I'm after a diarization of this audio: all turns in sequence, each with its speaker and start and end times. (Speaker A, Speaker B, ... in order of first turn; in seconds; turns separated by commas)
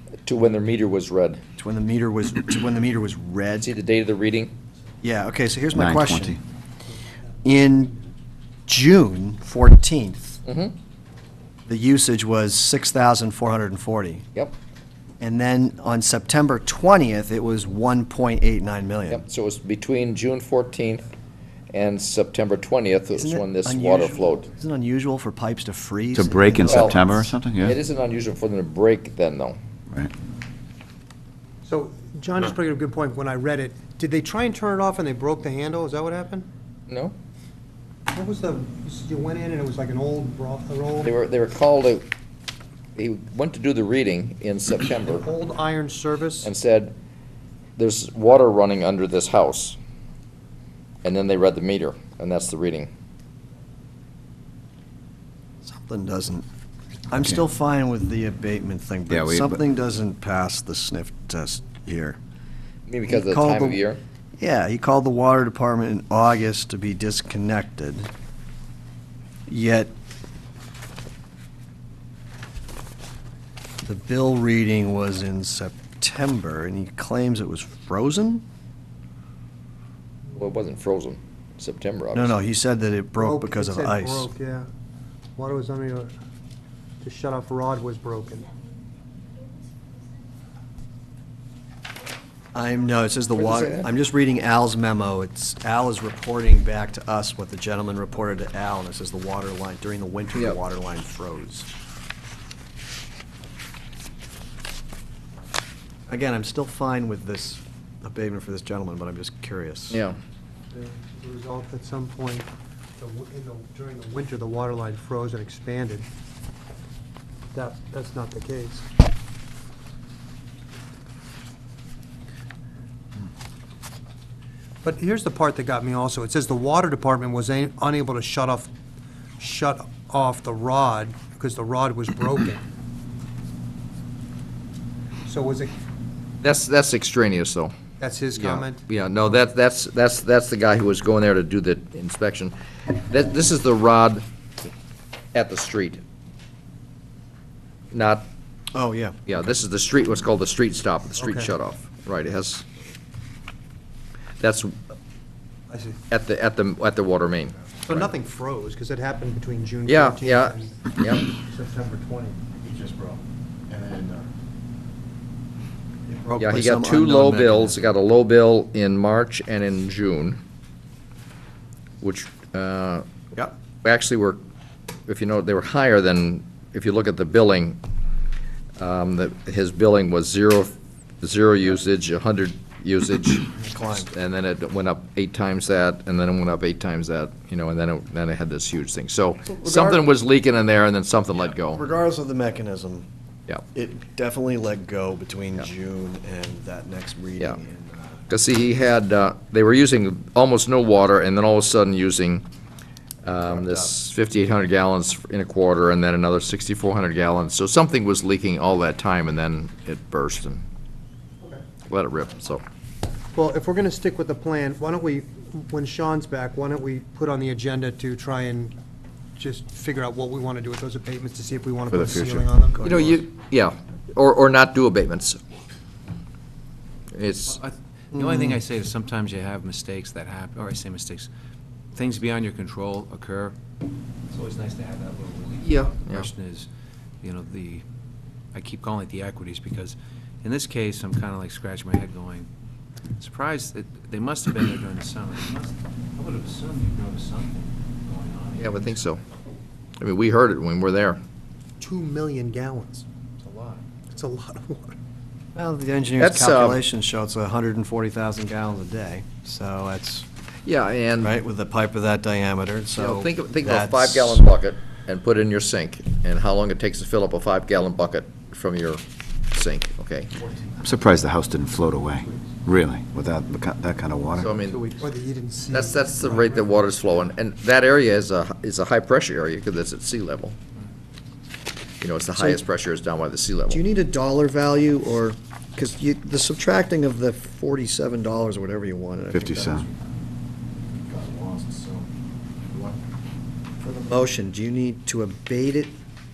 Speaker A: 0.2-1.4, Speaker B: 1.6-3.7, Speaker A: 3.6-4.5, Speaker B: 5.0-6.4, Speaker C: 5.8-6.4, Speaker B: 7.4-8.0, Speaker B: 8.7-10.4, Speaker A: 10.4-10.7, Speaker B: 11.7-14.2, Speaker B: 15.2-19.2, Speaker A: 19.1-21.1, Speaker A: 21.7-24.4, Speaker B: 23.1-27.3, Speaker C: 26.1-27.8, Speaker A: 26.6-27.0, Speaker A: 27.6-29.6, Speaker D: 31.6-36.5, Speaker A: 36.9-37.1, Speaker D: 38.1-41.1, Speaker A: 41.0-42.1, Speaker A: 43.0-45.3, Speaker D: 45.1-46.5, Speaker A: 46.4-46.9, Speaker A: 47.8-49.8, Speaker A: 51.0-52.9, Speaker B: 55.6-56.5, Speaker B: 57.1-62.2, Speaker C: 59.1-59.6, Speaker A: 62.9-64.0, Speaker B: 63.1-63.8, Speaker B: 64.4-68.1, Speaker B: 69.5-69.9, Speaker B: 73.8-78.4, Speaker A: 80.3-82.3, Speaker B: 82.1-84.3, Speaker D: 83.2-84.7, Speaker D: 85.4-86.1, Speaker D: 87.0-88.5, Speaker B: 92.5-101.7, Speaker A: 93.4-93.8, Speaker B: 106.1-110.0, Speaker A: 109.9-110.2, Speaker D: 110.7-116.1, Speaker D: 117.5-118.9, Speaker D: 124.8-128.7, Speaker D: 129.4-132.6, Speaker D: 135.2-135.7, Speaker A: 136.4-137.7, Speaker D: 138.0-138.8, Speaker A: 138.3-144.2, Speaker A: 145.3-146.0, Speaker A: 147.9-148.2, Speaker B: 148.7-149.2, Speaker A: 149.3-152.6, Speaker D: 151.2-151.5, Speaker A: 154.4-154.8, Speaker D: 155.7-156.0, Speaker A: 156.1-158.1, Speaker D: 157.9-160.9, Speaker A: 159.8-161.3, Speaker B: 161.5-164.3, Speaker B: 166.1-167.8, Speaker A: 166.4-170.4, Speaker A: 172.0-173.0, Speaker A: 173.8-174.4, Speaker A: 175.1-177.8, Speaker A: 178.8-191.8, Speaker B: 183.6-184.1, Speaker B: 189.4-190.1, Speaker B: 191.7-193.1, Speaker B: 193.7-198.2, Speaker A: 198.3-202.4, Speaker A: 203.2-210.6, Speaker B: 203.3-203.9, Speaker A: 211.9-212.6, Speaker D: 213.3-218.7, Speaker D: 219.4-223.1, Speaker C: 221.9-222.4, Speaker B: 222.8-223.1, Speaker A: 222.8-225.4, Speaker A: 227.1-227.6, Speaker E: 227.4-231.3, Speaker E: 231.9-233.5, Speaker E: 234.3-236.7, Speaker A: 235.6-236.3, Speaker E: 237.2-237.8, Speaker E: 238.5-242.5, Speaker E: 243.2-249.0, Speaker A: 248.6-249.2, Speaker A: 250.0-251.2, Speaker D: 251.8-253.0, Speaker E: 253.4-253.8, Speaker D: 254.0-255.0, Speaker B: 255.5-260.3, Speaker A: 256.2-256.8, Speaker A: 260.6-261.4, Speaker B: 261.2-264.4, Speaker A: 263.0-270.3, Speaker C: 270.8-274.5, Speaker A: 274.4-274.9, Speaker D: 275.0-276.6, Speaker A: 275.7-280.6, Speaker A: 282.0-283.8, Speaker B: 282.4-282.6, Speaker B: 283.7-289.9, Speaker C: 289.3-289.8, Speaker B: 291.0-292.1, Speaker B: 292.7-293.0, Speaker B: 293.8-295.9